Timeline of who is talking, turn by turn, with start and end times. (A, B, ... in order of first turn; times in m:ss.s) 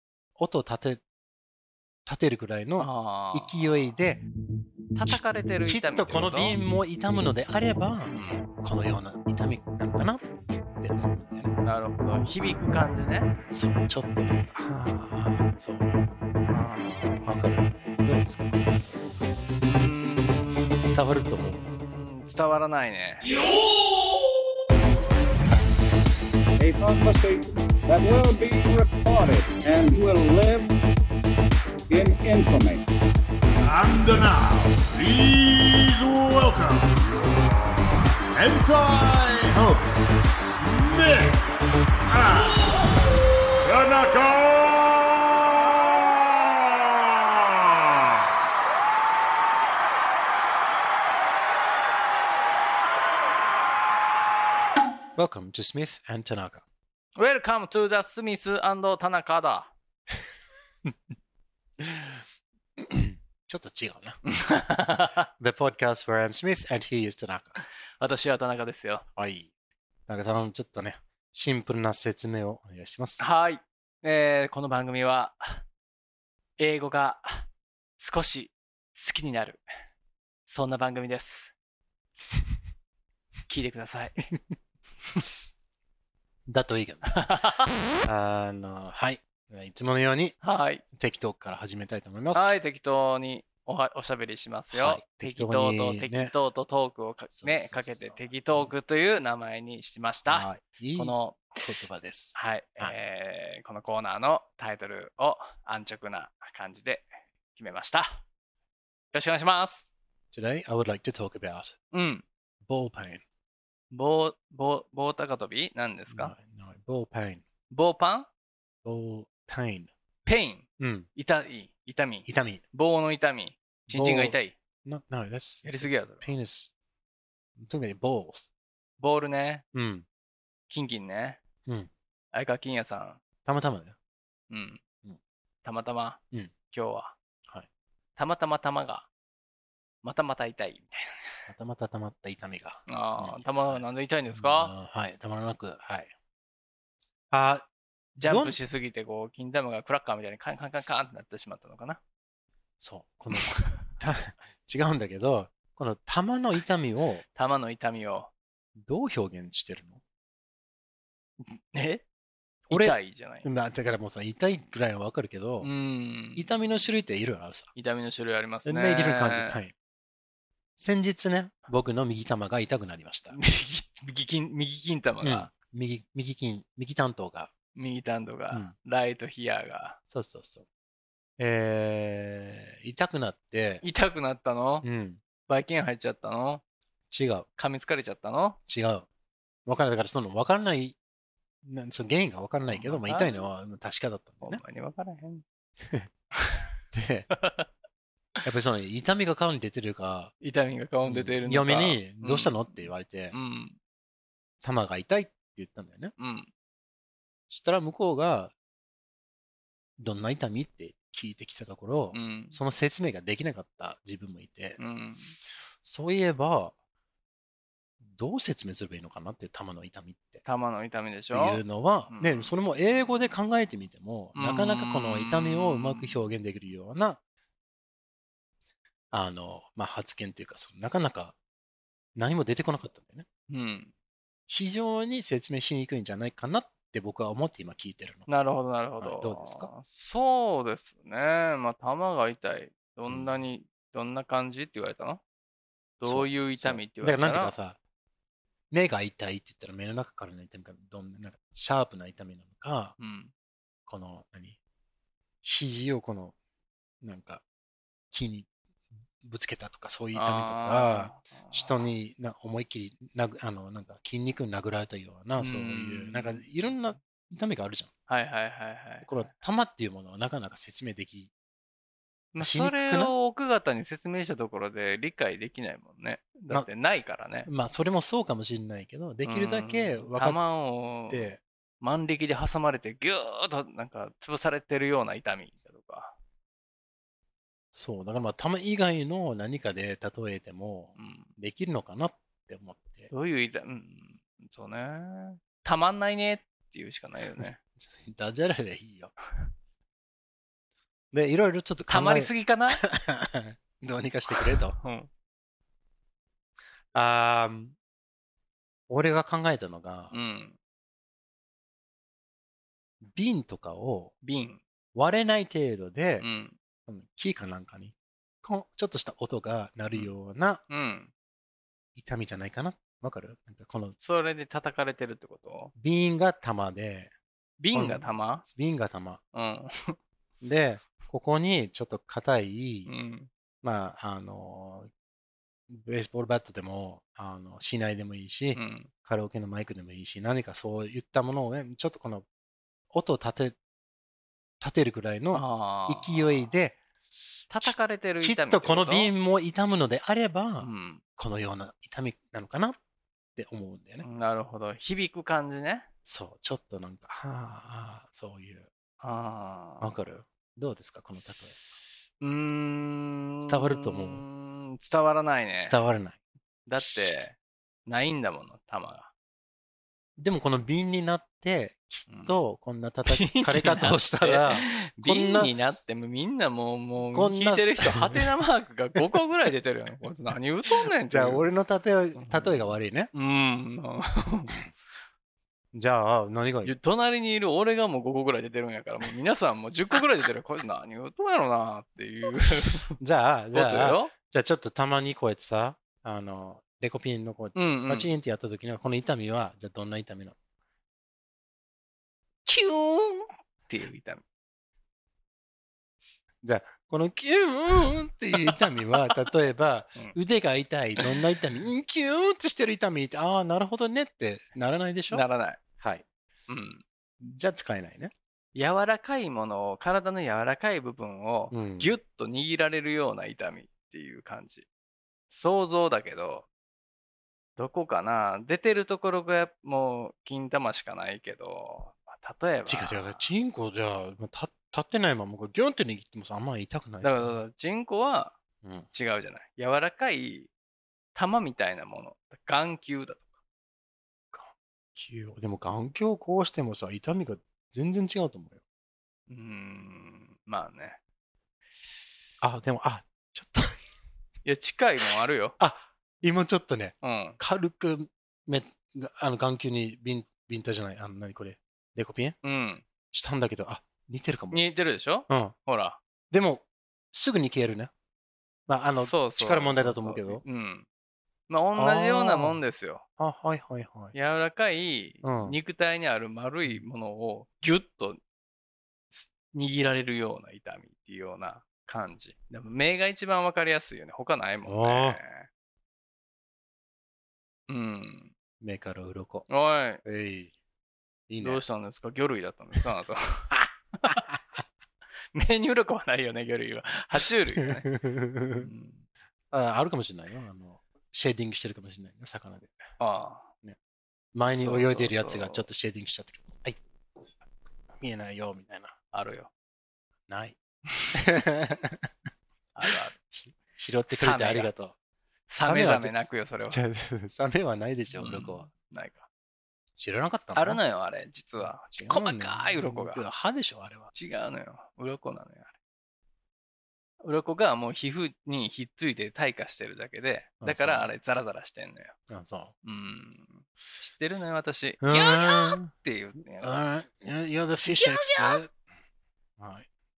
0:00.4-0:01.0 A
0:02.0-0:04.2 A
0:02.8-0:03.9 B
0:04.9-0:06.5 B
0:05.1-0:10.2 A
0:08.1-0:08.4 B
0:10.8-0:11.5 A
0:11.6-0:13.4 B
0:13.5-0:16.1 A
0:16.5-0:17.2 B
0:17.2-0:18.9 A
0:19.6-0:20.6 B
0:20.8-0:21.7 A
0:21.8-0:23.3 B
0:26.6-0:30.7 C
0:31.9-0:32.8 C
0:33.6-0:37.7 D
0:38.3-0:42.8 D
0:43.6-0:47.8 D
0:55.2-0:56.6 A
0:57.2-0:59.7 B
1:01.8-1:02.1 A
1:02.8-1:04.2 A
1:04.3-1:05.3 B
1:05.4-1:07.6 A
1:08.0-1:09.0 B
1:09.2-1:09.5 A
1:10.1-1:13.2 A
1:13.2-1:15.6 B
1:16.6-1:17.5 B
1:18.0-1:19.6 B
1:20.5-1:21.5 B
1:23.5-1:24.3 B
1:26.5-1:27.2 A
1:27.1-1:27.7 B
1:28.0-1:30.4 A
1:30.4-1:30.8 B
1:30.9-1:32.6 A
1:32.3-1:41.8 B
1:34.7-1:36.3 A
1:37.3-1:38.7 A
1:40.3-1:42.9 A
1:42.3-1:48.2 B
1:49.1-1:49.9 B
1:50.3-1:51.7 A
1:51.9-1:52.2 B
1:52.6-1:53.2 A
1:53.9-1:56.3 B
1:56.1-1:57.4 A
1:57.7-1:58.3 B
1:58.8-1:59.9 A
2:00.2-2:04.5 B
2:00.8-2:01.1 A
2:02.2-2:02.6 A
2:03.9-2:06.7 A
2:05.6-2:06.3 B
2:07.6-2:08.5 A
2:09.0-2:09.6 B
2:09.7-2:10.0 A
2:10.7-2:11.4 B
2:12.3-2:13.2 B
2:13.4-2:13.9 A
2:14.5-2:14.8 B
2:15.6-2:17.1 B
2:18.2-2:19.1 B
2:20.0-2:21.5 B
2:21.5-2:26.1 A
2:22.9-2:24.7 B
2:27.3-2:27.7 A
2:28.2-2:32.0 B
2:28.2-2:28.6 A
2:32.8-2:37.2 A
2:33.3-2:33.8 B
2:37.3-2:38.3 B
2:38.8-2:40.0 A
2:41.4-2:42.0 B
2:42.7-2:43.4 B
2:42.7-2:45.7 A
2:45.6-2:46.5 B
2:46.3-2:47.7 A
2:47.7-2:49.6 B
2:48.6-2:49.7 A
2:50.8-2:53.4 A
2:53.3-2:55.5 B
2:55.2-2:57.5 A
2:57.7-3:00.0 B
3:00.1-3:00.6 A
3:01.4-3:03.8 A
3:03.8-3:04.8 B
3:04.8-3:05.2 A
3:05.5-3:06.6 B
3:07.1-3:07.5 A
3:07.6-3:08.6 B
3:08.7-3:09.0 A
3:09.6-3:11.0 A
3:11.6-3:14.6 A
3:12.7-3:13.4 B
3:14.4-3:15.4 B
3:16.4-3:16.7 B
3:16.9-3:17.3 A
3:17.3-3:17.7 B
3:18.4-3:20.3 A
3:20.4-3:23.8 B
3:21.0-3:23.3 A
3:24.6-3:26.1 A
3:26.2-3:26.5 B
3:27.5-3:28.5 A
3:30.0-3:34.8 A
3:32.1-3:32.6 B
3:34.8-3:35.3 B
3:35.8-3:36.7 A
3:38.0-3:40.4 A
3:40.4-3:42.5 B
3:41.3-3:47.2 A
3:44.4-3:46.2 B
3:49.1-3:51.3 A
3:52.2-3:53.2 A
3:53.5-3:53.9 B
3:54.5-3:58.3 A
3:58.3-4:05.2 B
3:59.0-3:59.7 A
4:03.1-4:03.4 A
4:06.0-4:07.5 B
4:06.0-4:07.8 A
4:08.7-4:12.9 A
4:13.0-4:13.3 B
4:13.9-4:14.6 A
4:15.4-4:16.3 A
4:17.0-4:17.4 A
4:18.1-4:18.5 A
4:19.2-4:27.9 A
4:20.1-4:21.8 B
4:25.4-4:26.4 B
4:28.1-4:29.2 B
4:29.0-4:31.3 A
4:32.3-4:37.5 B
4:32.4-4:33.1 A
4:37.4-4:40.4 A
4:39.2-4:41.3 B
4:41.1-4:41.4 A
4:41.8-4:46.1 B
4:47.7-4:53.1 A
4:51.0-4:51.3 B
4:53.1-4:57.6 B
4:57.8-4:59.1 A
5:01.1-5:04.8 A
5:01.9-5:02.8 B
5:04.3-5:05.1 B
5:06.9-5:07.8 A
5:08.9-5:10.2 A
5:10.1-5:10.6 B
5:13.0-5:14.1 A
5:14.2-5:14.6 B
5:14.9-5:16.2 A
5:16.2-5:16.6 B
5:16.9-5:20.6 A
5:20.7-5:21.1 B
5:22.0-5:23.9 A
5:24.0-5:25.7 B
5:25.7-5:27.1 A
5:27.6-5:28.4 B
5:27.7-5:29.2 A
5:29.3-5:30.0 B
5:30.4-5:32.9 A
5:32.9-5:33.3 B
5:33.6-5:34.9 A
5:35.7-5:42.2 A
5:38.6-5:38.9 B
5:42.9-5:43.6 A
5:44.6-5:46.8 A
5:45.3-5:46.5 B
5:47.5-5:49.1 B
5:47.6-5:52.8 A
5:50.6-5:51.0 B
5:53.4-5:54.0 A
5:54.0-5:55.9 B
5:56.0-5:58.7 A
5:59.0-5:59.9 B
5:59.8-6:01.6 A
6:02.2-6:05.7 B
6:03.4-6:04.2 A
6:05.6-6:06.2 A
6:06.7-6:07.3 B
6:06.8-6:07.2 A
6:07.8-6:09.1 B
6:10.2-6:15.5 A
6:12.1-6:12.3 B
6:13.1-6:21.4 B
6:17.0-6:18.3 A
6:20.7-6:23.1 A
6:22.2-6:22.6 B
6:23.1-6:24.5 B
6:25.7-6:26.7 A
6:26.6-6:33.0 B
6:33.0-6:40.4 A
6:33.5-6:34.1 B
6:37.6-6:38.1 B
6:42.4-6:44.2 B
6:46.4-6:55.2 A
6:48.4-6:49.1 B
6:55.1-6:55.6 B
6:55.8-6:56.0 A
6:56.5-6:56.8 B
6:57.2-6:58.1 A
6:58.5-7:04.6 B
7:01.5-7:02.0 A
7:05.3-7:06.4 B
7:07.6-7:13.2 B
7:12.7-7:17.4 A
7:17.0-7:18.3 B
7:18.6-7:18.9 A
7:18.9-7:20.5 B
7:21.1-7:23.3 B
7:24.3-7:28.6 A
7:29.3-7:31.0 B
7:32.4-7:34.0 A
7:34.4-7:35.6 B
7:35.6-7:42.4 A
7:37.0-7:37.4 B
7:42.4-7:42.8 B
7:43.1-7:44.6 A
7:44.5-7:46.0 B
7:45.3-7:45.5 A
7:46.3-7:47.9 A
7:48.7-7:50.4 A
7:49.0-7:50.8 B
7:51.5-7:53.0 B
7:51.7-7:52.6 A
7:53.2-7:54.1 A
7:54.1-7:58.2 B
7:55.2-7:55.6 A
7:59.1-8:05.5 B
8:04.6-8:05.2 A
8:07.7-8:08.3 B
8:08.6-8:09.5 A
8:09.5-8:10.0 B
8:10.0-8:10.5 A
8:11.3-8:11.6 A
8:11.4-8:14.2 B
8:14.1-8:14.4 A
8:15.3-8:17.8 B
8:17.6-8:18.7 A
8:18.6-8:19.0 B
8:19.5-8:22.7 A
8:23.0-8:23.5 B
8:24.3-8:26.8 A
8:24.5-8:25.7 B
8:28.0-8:28.9 A
8:29.1-8:29.5 B
8:30.3-8:30.6 A
8:31.1-8:32.1 A
8:32.8-8:33.2 B
8:32.8-8:34.9 A
8:34.1-8:34.7 B
8:35.5-8:36.8 B
8:35.6-8:36.1 A
8:36.7-8:38.7 A
8:38.1-8:39.3 B
8:40.0-8:40.8 A
8:40.5-8:43.2 B
8:41.9-8:44.1 A
8:44.1-8:45.7 B
8:47.2-8:52.1 B
8:50.6-8:51.1 A
8:52.3-8:52.7 A
8:52.8-8:56.8 B
8:55.0-8:55.9 A
8:56.4-8:58.7 A
8:57.9-8:58.6 B
8:59.6-8:59.9 A